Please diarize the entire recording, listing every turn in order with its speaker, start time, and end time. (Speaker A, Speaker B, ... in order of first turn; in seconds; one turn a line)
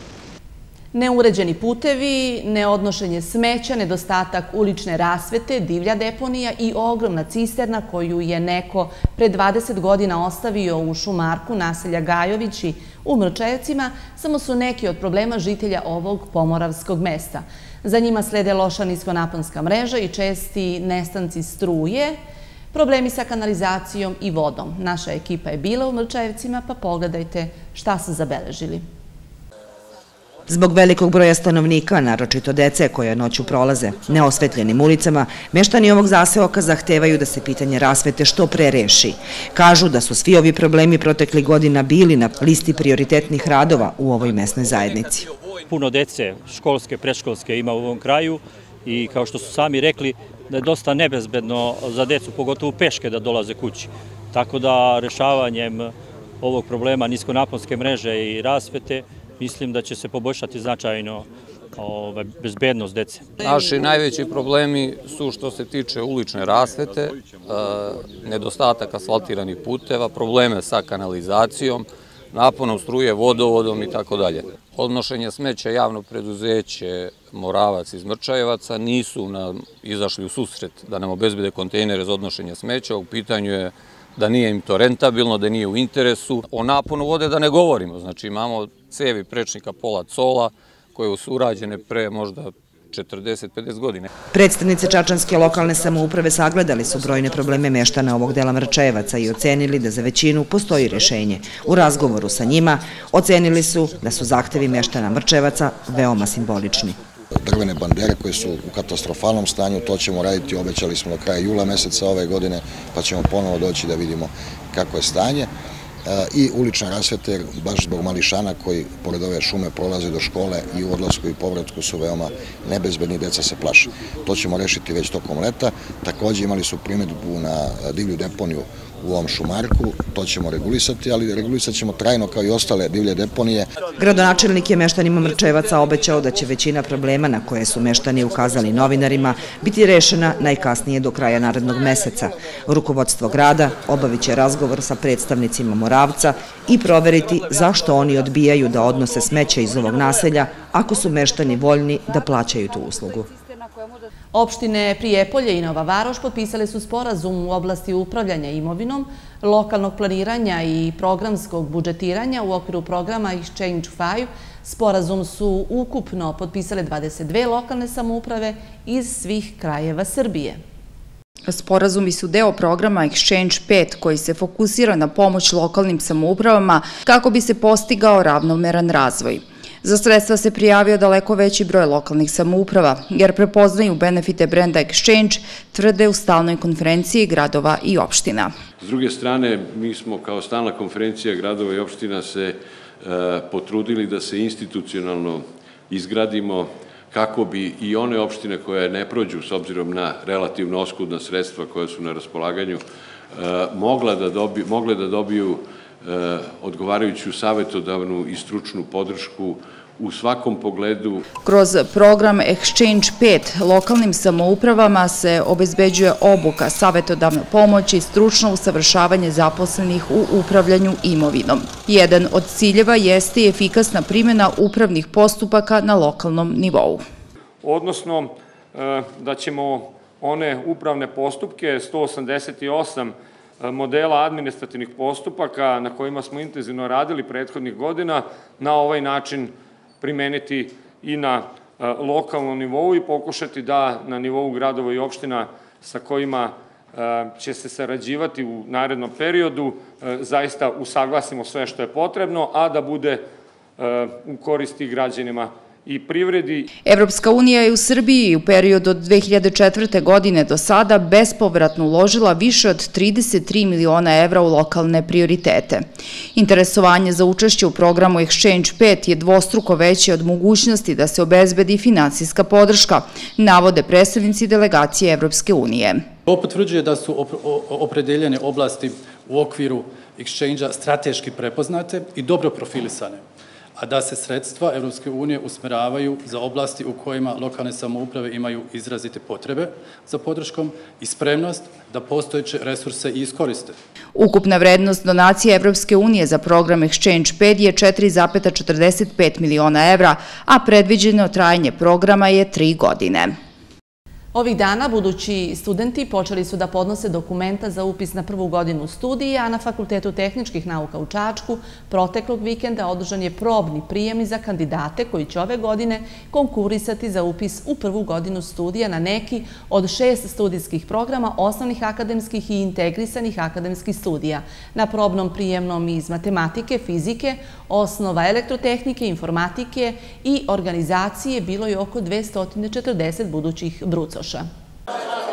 Speaker A: 0.9-22.2
Speaker A: 22.7-28.8
Speaker B: 30.5-45.3
Speaker C: 45.7-63.3
Speaker D: 63.4-94.1
Speaker B: 94.3-107.0
Speaker E: 107.4-115.5
Speaker E: 116.0-133.7
Speaker B: 134.0-153.3
Speaker A: 154.3-170.6
Speaker F: 171.5-188.5
Speaker G: 188.8-202.8
Speaker H: 202.1-202.7
Speaker G: 203.3-211.2
Speaker H: 206.7-209.5
Speaker H: 210.1-211.1
Speaker F: 211.4-227.0
Speaker I: 227.6-253.2
Speaker I: 253.8-256.7
Speaker F: 256.8-276.1
Speaker H: 276.3-283.2
Speaker H: 283.8-293.7
Speaker F: 294.1-303.3
Speaker A: 304.3-334.5